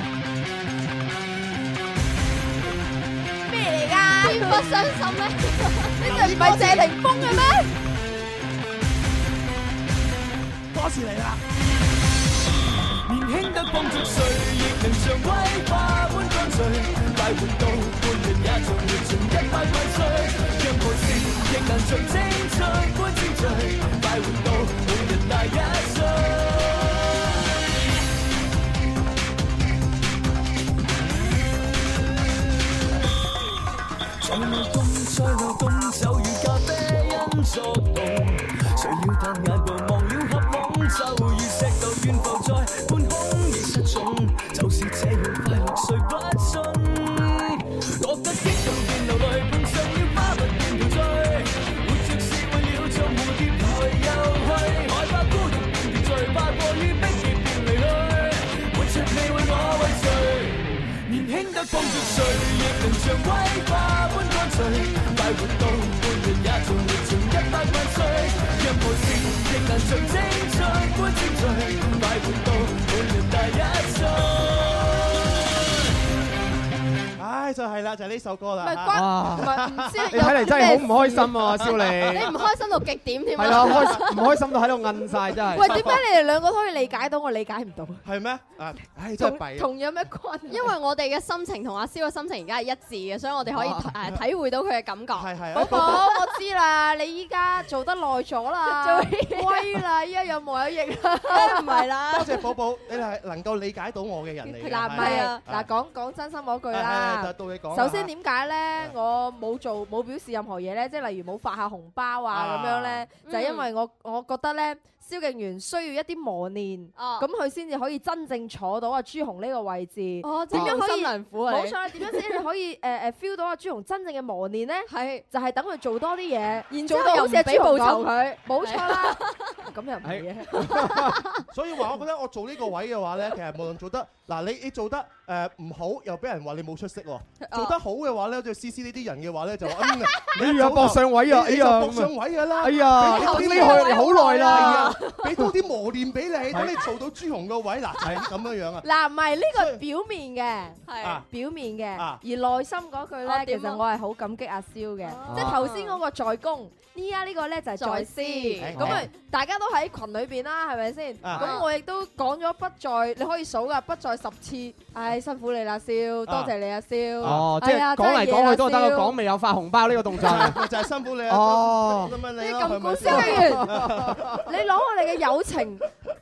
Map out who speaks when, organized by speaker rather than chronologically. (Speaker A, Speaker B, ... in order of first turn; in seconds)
Speaker A: 3.5-4.9, 6.0-7.7, 78.6-81.7, 85.5-88.0, 89.2-90.7, 95.5-101.8, 104.8-131.1, 143.3-144.9, 148.8-169.2, 172.4-175.8
Speaker B: 4.1-6.0, 82.1-84.3, 90.5-96.3, 98.7-99.8, 101.2-102.5, 104.4-105.4, 113.2-113.7, 117.0-117.3, 120.2-122.4, 124.9-125.2, 126.7-129.6, 137.4-137.7, 139.8-140.2, 143.0-145.3, 150.8-151.2, 153.2-153.8, 155.0-156.0, 157.8-158.8, 161.3-161.7
Speaker C: 6.0-7.5, 10.7-11.4, 77.2-80.5, 81.6-81.9, 88.0-89.7, 95.1-96.1, 102.1-105.7, 106.7-108.1, 112.3-113.1, 131.5-148.8, 149.5-149.8, 158.6-159.0, 161.2-161.6, 166.3-166.5, 167.2-167.5, 170.2-174.6
Speaker D: 13.1-27.1, 34.2-75.2
Speaker E: 78.9-82.4, 83.3-86.0, 93.5-93.9, 120.5-120.8, 130.0-131.2, 140.3-144.8, 146.5-146.8, 155.3-155.6, 158.8-159.1, 167.2-170.6, 171.3-172.2, 173.0-174.4